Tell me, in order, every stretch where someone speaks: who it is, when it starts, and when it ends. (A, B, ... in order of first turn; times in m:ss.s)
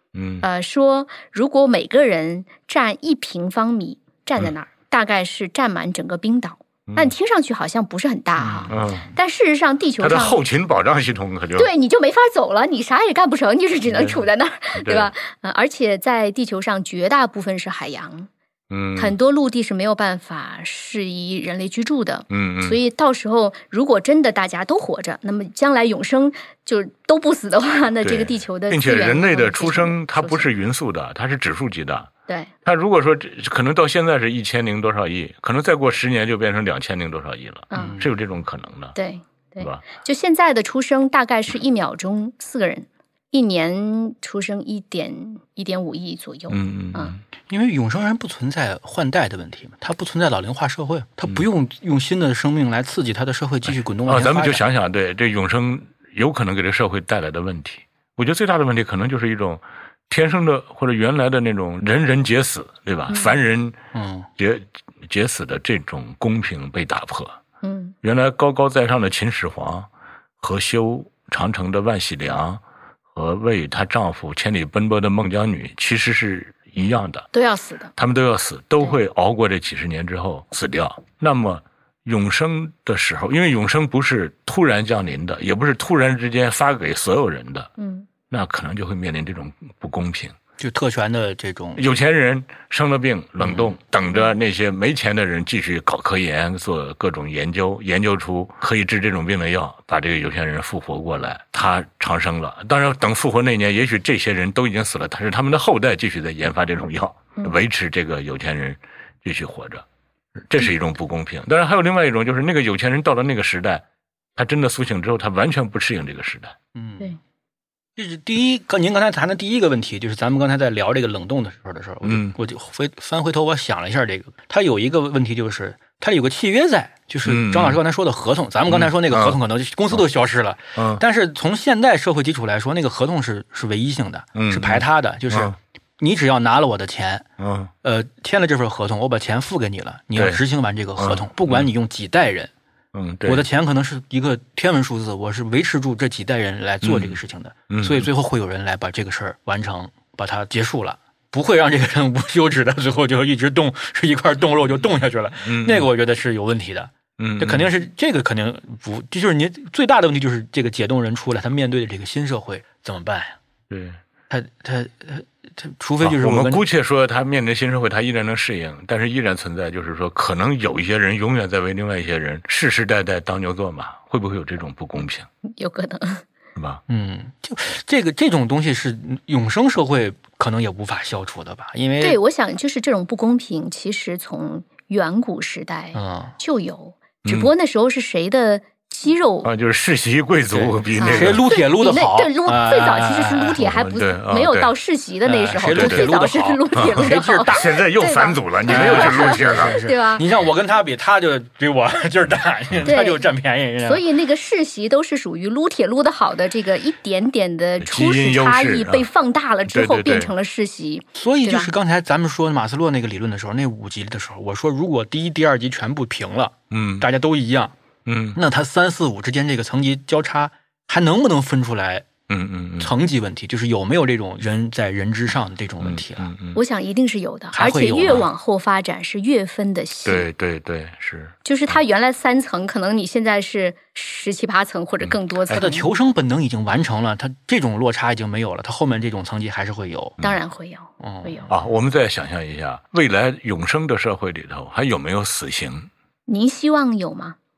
0:00.1-0:00.5 A
0:00.4-0:10.4 B
0:06.9-0:07.1 A
0:08.4-0:09.1 C
0:08.7-0:09.1 A
0:10.0-0:11.7 A
0:11.6-0:18.3 B
0:13.9-0:14.2 A
0:14.8-0:15.1 A
0:18.7-0:19.1 A
0:19.0-0:30.5 B
0:22.3-0:22.8 A
0:28.0-0:32.1 A
0:32.6-0:39.0 A
0:37.7-0:38.0 B
0:37.8-0:38.1 C
0:38.9-0:47.1 B
0:46.5-0:47.2 A
0:47.5-0:54.6 C
0:54.1-1:03.8 A
1:03.9-1:04.3 C
1:04.4-1:07.4 A
1:07.6-1:07.9 B
1:08.0-1:09.9 A
1:10.4-1:12.6 A
1:13.1-1:17.3 A
1:17.3-1:17.9 B
1:18.0-1:27.7 A
1:27.8-1:28.1 B
1:28.3-1:30.4 A
1:30.6-1:31.8 C
1:31.8-1:49.8 A
1:33.4-1:33.7 C
1:50.5-1:53.8 A
1:54.4-1:56.5 A
1:56.7-1:57.1 C
1:58.0-2:17.2 C
2:02.0-2:02.3 A
2:07.2-2:07.8 A
2:08.7-2:09.4 A
2:10.8-2:11.0 A
2:14.3-2:15.5 A
2:17.4-2:17.7 A
2:17.8-2:22.5 C
2:20.1-2:20.4 A
2:21.0-2:21.7 A
2:22.9-2:23.5 A
2:23.2-2:43.4 C
2:26.8-2:27.2 A
2:27.7-2:28.1 A
2:35.4-2:35.9 A
2:37.2-2:37.7 A
2:43.7-2:44.0 A
2:44.3-2:46.6 C
2:46.0-2:55.3 A
2:55.4-2:56.2 B
2:56.6-2:56.8 A
2:56.9-3:02.2 C
3:02.0-3:09.5 B
3:05.9-3:06.3 C
3:07.2-3:07.5 A
3:09.4-3:11.4 A
3:10.5-3:13.6 C
3:11.0-3:20.3 B
3:13.6-3:14.7 A
3:15.2-3:17.8 C
3:15.7-3:16.1 A
3:16.7-3:19.8 A
3:18.6-3:24.0 C
3:22.8-3:23.2 B
3:23.8-3:31.7 B
3:27.8-3:29.1 A
3:29.7-3:30.3 A
3:31.2-3:37.8 C
3:36.7-3:37.1 A
3:38.0-3:38.4 A
3:38.3-3:42.1 C
3:42.3-3:42.9 A
3:42.8-3:46.3 C
3:45.8-3:46.6 A
3:46.5-3:50.3 B
3:47.5-3:48.2 C
3:50.0-3:51.4 A
3:51.4-3:55.9 B
3:55.0-3:55.6 A
3:55.5-4:00.2 C
4:00.2-4:01.5 B
4:01.0-4:01.5 C
4:01.5-4:05.9 A
4:06.3-4:07.4 B